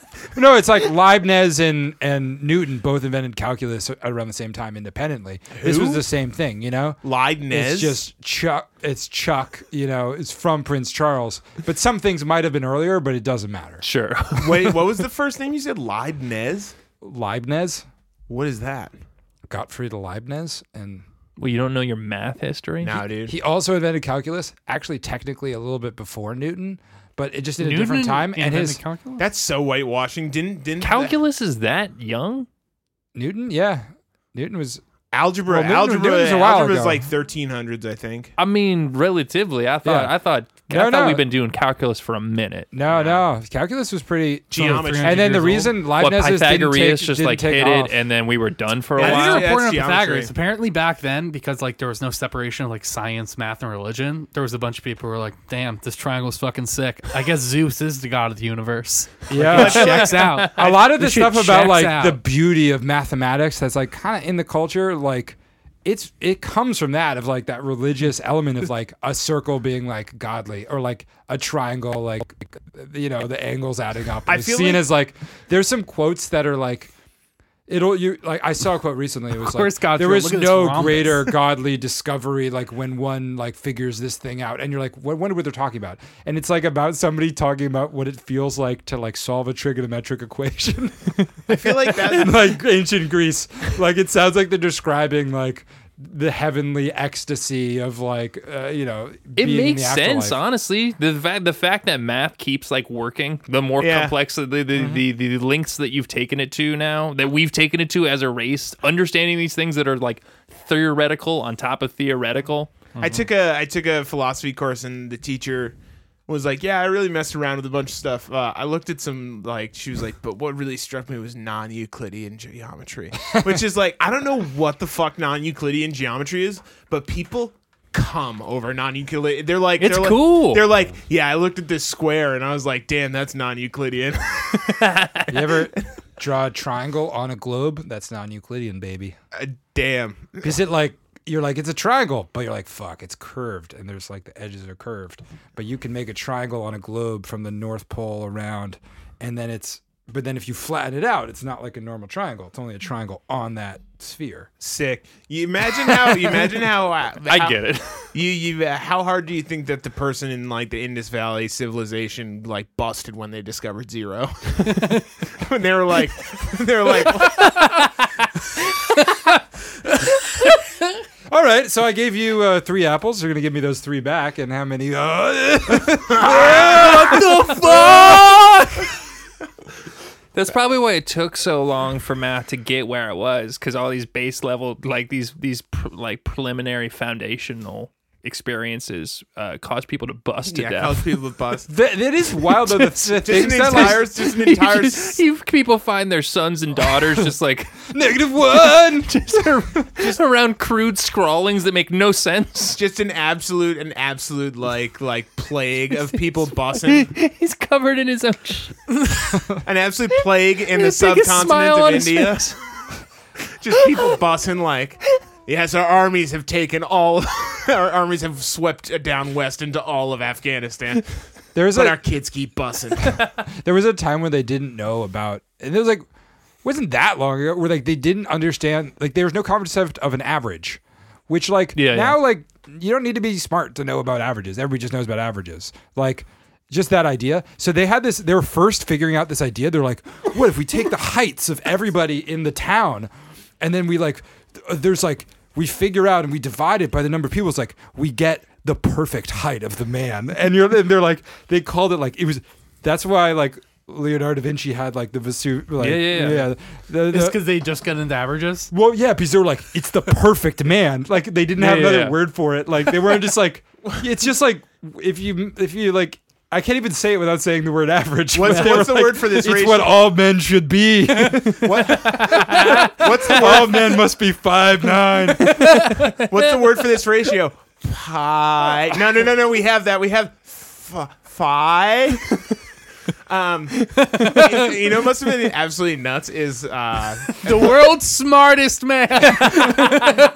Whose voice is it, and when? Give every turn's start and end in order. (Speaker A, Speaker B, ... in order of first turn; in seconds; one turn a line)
Speaker A: 0.3-13.8
Speaker B: 5.5-6.0
Speaker B: 7.0-8.0
Speaker C: 13.8-15.0
Speaker B: 14.4-16.7
Speaker A: 17.0-17.9
Speaker B: 18.3-18.9
Speaker A: 19.5-21.0
Speaker C: 21.4-23.1
Speaker B: 22.8-23.4
Speaker A: 23.3-28.8
Speaker D: 27.6-29.3
Speaker B: 29.2-31.1
Speaker C: 30.8-32.5
Speaker A: 33.1-34.8
Speaker B: 35.1-38.3
Speaker A: 35.5-37.1
Speaker C: 38.4-42.7
Speaker A: 39.8-40.1
Speaker A: 40.7-41.2
Speaker A: 42.7-47.9
Speaker B: 42.9-43.2
Speaker B: 44.5-45.6
Speaker D: 44.5-45.7
Speaker C: 45.9-49.5
Speaker B: 49.0-50.3
Speaker D: 49.0-62.2
Speaker A: 59.3-76.9
Speaker B: 59.5-60.2
Speaker C: 59.5-60.5
Speaker B: 74.3-74.8
Speaker A: 77.7-100.4
Speaker D: 79.4-81.4
Speaker B: 91.5-92.6
Speaker C: 99.4-112.9
Speaker B: 103.8-104.1
Speaker A: 104.8-105.0
Speaker B: 113.0-134.8
Speaker C: 129.8-130.7
Speaker C: 134.8-135.3
Speaker A: 135.3-139.2
Speaker B: 139.3-140.5
Speaker A: 140.4-154.5
Speaker B: 154.6-157.6
Speaker C: 157.3-158.1
Speaker B: 158.1-167.8
Speaker C: 167.3-167.8
Speaker A: 171.3-178.3
Speaker B: 176.1-177.1
Speaker C: 176.2-178.9
Speaker C: 180.3-191.1
Speaker B: 190.5-191.7
Speaker A: 191.7-194.1
Speaker B: 193.1-195.2
Speaker C: 193.4-197.9
Speaker A: 197.9-200.2
Speaker C: 198.5-202.8
Speaker B: 202.7-207.1
Speaker C: 206.8-209.4
Speaker B: 209.6-212.6
Speaker C: 210.7-212.6
Speaker B: 213.6-221.2
Speaker C: 213.8-214.2
Speaker A: 221.6-222.0
Speaker B: 221.7-223.3
Speaker A: 223.4-226.1
Speaker A: 226.6-243.1
Speaker C: 231.8-232.2
Speaker A: 243.6-257.4
Speaker C: 255.8-256.5
Speaker D: 257.1-258.7
Speaker A: 258.7-275.9
Speaker C: 261.6-262.2
Speaker B: 268.3-269.9
Speaker B: 271.6-273.9
Speaker C: 272.2-272.9
Speaker C: 275.3-276.5
Speaker B: 276.3-282.3
Speaker B: 283.3-287.8
Speaker D: 287.4-290.1